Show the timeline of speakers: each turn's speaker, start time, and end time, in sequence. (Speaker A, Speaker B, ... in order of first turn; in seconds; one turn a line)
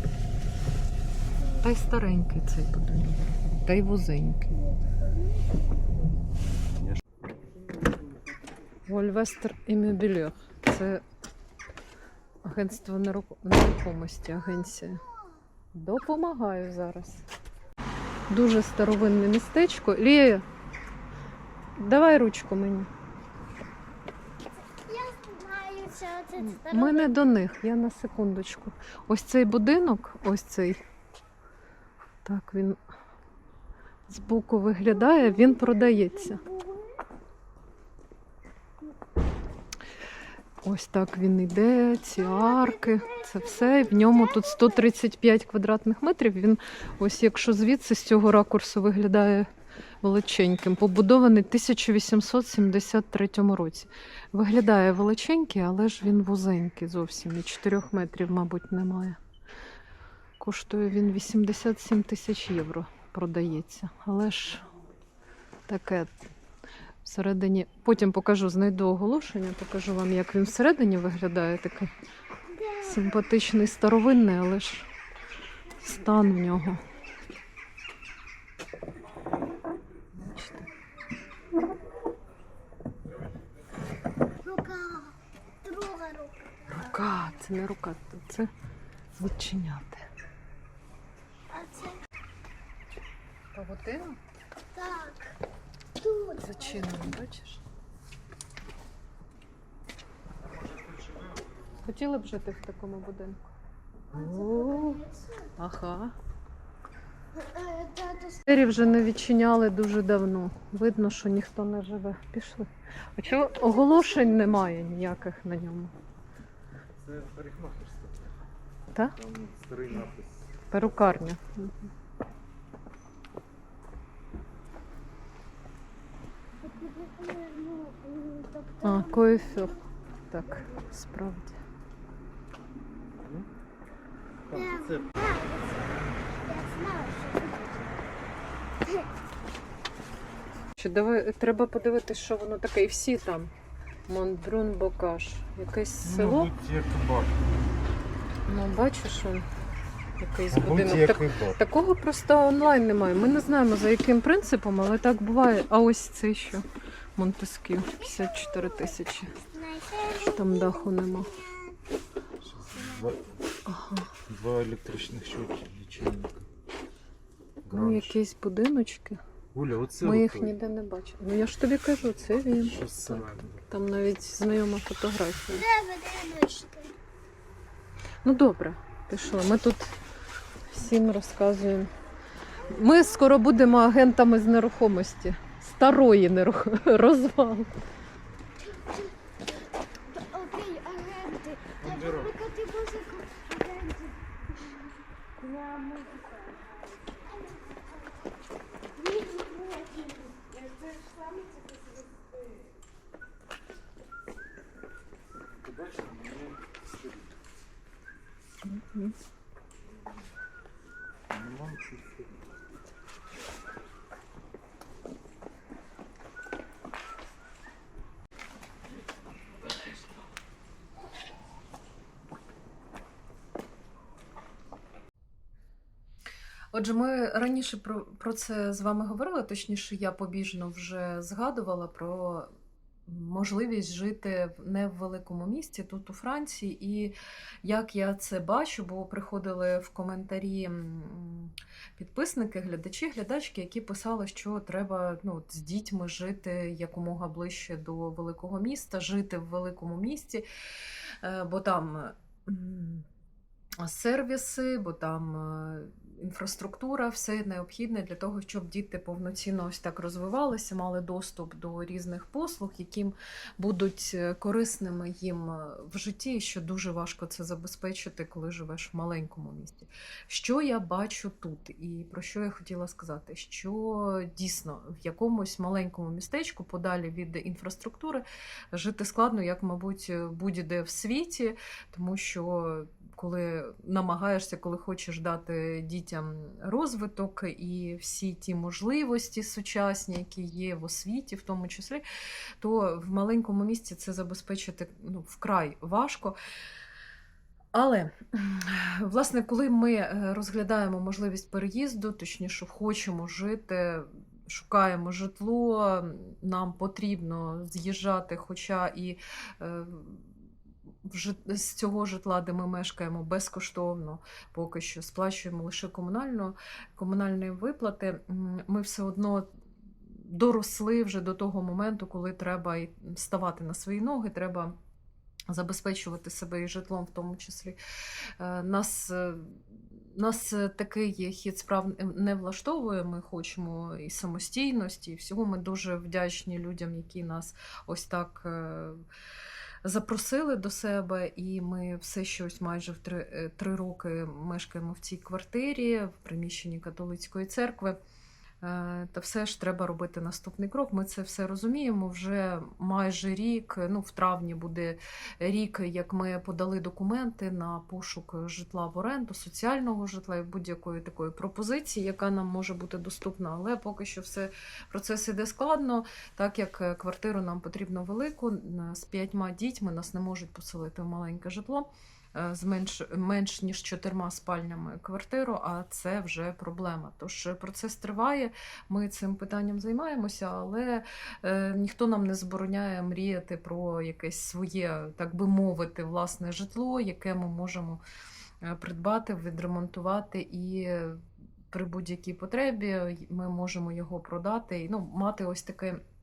Speaker A: 1.6-4.6
Speaker B: 5.0-5.2
Speaker A: 8.9-11.0
Speaker A: 12.4-15.0
Speaker A: 15.7-17.2
Speaker A: 18.3-20.4
Speaker A: 21.8-22.9
Speaker B: 24.9-27.2
Speaker A: 26.4-30.8
Speaker A: 32.2-32.8
Speaker A: 34.1-36.4
Speaker B: 34.9-37.0
Speaker A: 40.6-49.5
Speaker B: 42.1-44.9
Speaker A: 50.0-59.2
Speaker A: 60.4-64.7
Speaker A: 65.7-66.1
Speaker A: 67.0-71.9
Speaker B: 72.5-73.3
Speaker A: 72.8-74.9
Speaker A: 75.8-76.8
Speaker A: 80.1-80.7
Speaker B: 84.4-86.3
Speaker A: 86.7-88.5
Speaker A: 89.2-90.1
Speaker B: 91.5-92.0
Speaker A: 93.5-94.2
Speaker B: 94.7-95.3
Speaker B: 96.0-97.1
Speaker A: 96.4-97.6
Speaker A: 101.8-103.4
Speaker A: 104.1-105.0
Speaker B: 104.1-105.4
Speaker A: 105.6-106.1
Speaker B: 107.4-108.4
Speaker A: 108.5-115.9
Speaker B: 113.4-114.5
Speaker C: 117.0-118.3
Speaker C: 119.1-121.1
Speaker A: 120.7-121.7
Speaker B: 126.6-129.8
Speaker A: 128.8-129.7
Speaker A: 130.3-131.5
Speaker B: 130.4-130.9
Speaker C: 133.2-133.5
Speaker C: 134.5-135.1
Speaker B: 134.5-137.8
Speaker A: 140.8-143.5
Speaker A: 144.1-146.5
Speaker C: 146.0-147.7
Speaker A: 148.5-149.4
Speaker A: 150.2-159.3
Speaker C: 150.5-151.6
Speaker B: 158.0-161.8
Speaker A: 160.1-161.3
Speaker C: 162.4-163.4
Speaker A: 163.7-164.1
Speaker C: 164.3-166.5
Speaker C: 167.6-168.2
Speaker A: 167.7-169.2
Speaker C: 169.5-170.6
Speaker A: 170.0-175.7
Speaker C: 172.6-173.6
Speaker B: 175.5-176.9
Speaker A: 178.2-179.9
Speaker A: 180.7-181.9
Speaker B: 182.6-183.2
Speaker A: 182.6-187.7
Speaker B: 188.6-189.1
Speaker B: 190.1-194.2
Speaker C: 191.8-192.3
Speaker B: 195.4-196.5
Speaker B: 197.2-198.0
Speaker B: 198.9-200.6
Speaker C: 205.5-207.4
Speaker A: 208.6-209.1
Speaker C: 211.3-212.5
Speaker A: 226.7-232.5
Speaker A: 233.1-250.4
Speaker A: 251.2-253.1
Speaker A: 253.8-292.0
Speaker A: 292.6-296.4
Speaker A: 297.7-310.3
Speaker A: 311.0-319.5
Speaker A: 320.1-324.7
Speaker A: 325.5-327.8
Speaker A: 328.4-339.0
Speaker A: 339.8-348.0
Speaker A: 348.6-388.0
Speaker A: 388.6-396.0